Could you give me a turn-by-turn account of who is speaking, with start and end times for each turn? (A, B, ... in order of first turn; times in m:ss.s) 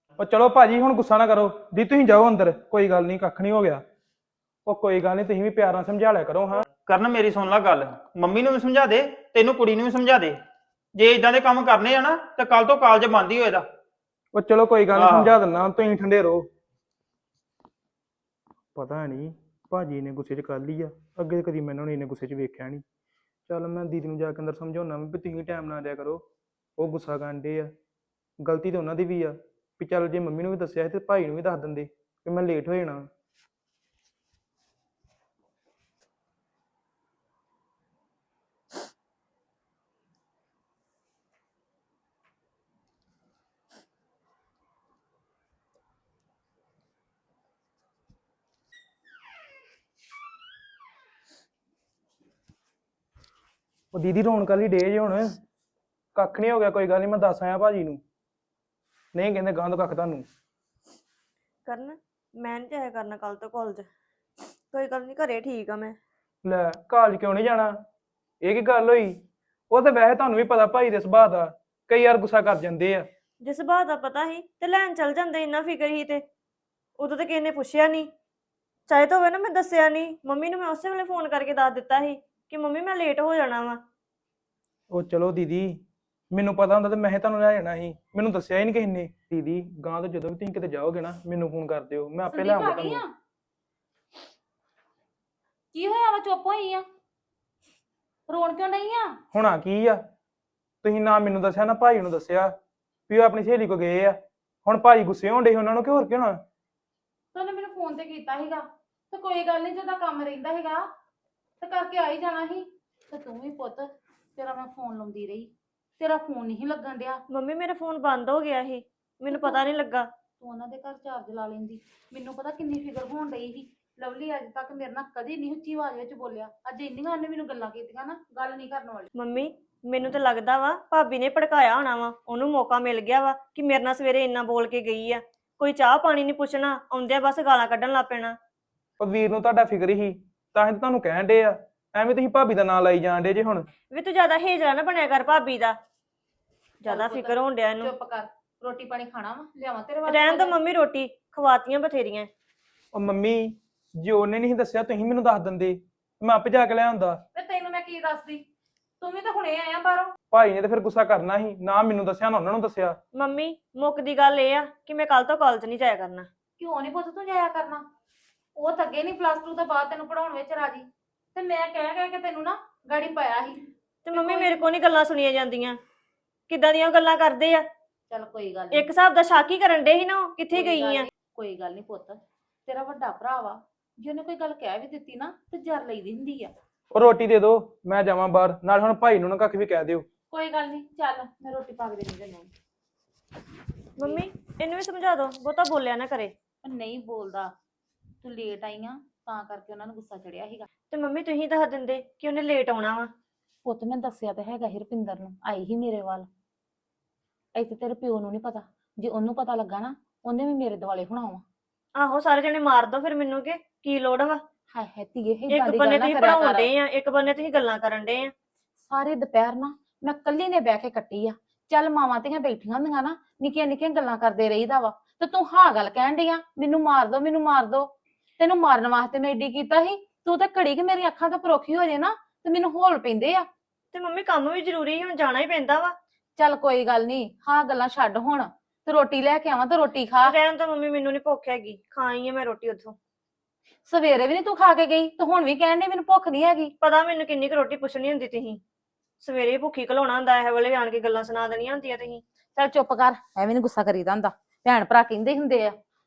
0:00.2-0:03.8 A
0:04.7-0:06.6 A
0:06.8-0:10.4 B
0:11.0-0:13.6 B
0:14.3-0:16.5 A
0:15.0-0:15.4 B
0:18.8-0:22.8 A
0:23.5-0:26.2 A
0:26.8-0:27.7 A
0:28.4-0:33.1 A
0:53.9-0:55.4 A
0:56.2-0:58.0 A
0:59.1-1:00.3 A
1:01.7-1:03.9 C
1:04.7-1:06.0 C
1:06.4-1:07.7 A
1:08.4-1:13.1 A
1:13.4-1:16.2 C
1:17.0-1:18.1 C
1:18.9-1:23.8 C
1:24.9-1:33.0 A
1:32.3-1:33.1 D
1:35.7-1:36.8 D
1:38.3-1:39.2 D
1:39.3-1:40.0 A
1:40.8-1:42.5 A
1:43.1-1:46.4 A
1:47.3-1:50.8 D
1:51.6-1:57.2 D
1:57.3-2:00.1 C
1:59.3-1:59.6 D
2:00.4-2:09.1 D
2:09.1-2:18.4 C
2:19.0-2:23.7 A
2:23.9-2:25.8 C
2:26.8-2:27.9 C
2:26.8-2:30.5 D
2:30.0-2:32.3 C
2:32.9-2:37.2 A
2:37.3-2:38.4 D
2:39.0-2:40.1 D
2:40.3-2:43.0 A
2:43.1-2:46.3 C
2:46.6-2:47.8 D
2:48.6-2:53.6 D
2:54.0-2:55.8 C
2:54.1-2:54.6 D
2:56.5-2:57.7 C
2:58.1-2:58.9 D
2:58.7-3:01.1 C
3:00.5-3:06.5 D
3:06.9-3:10.1 A
3:10.3-3:12.5 D
3:14.0-3:16.4 C
3:16.6-3:17.5 D
3:18.2-3:20.7 D
3:20.9-3:23.1 C
3:23.6-3:26.3 D
3:27.6-3:31.4 D
3:32.0-3:34.4 C
3:34.7-3:36.7 D
3:35.5-3:38.3 C
3:38.8-3:53.5 D
3:53.9-3:56.0 C
3:56.4-4:00.4 D
4:00.2-4:03.0 C
4:03.9-4:06.7 D
4:06.8-4:08.6 C
4:09.2-4:12.2 C
4:12.6-4:15.8 D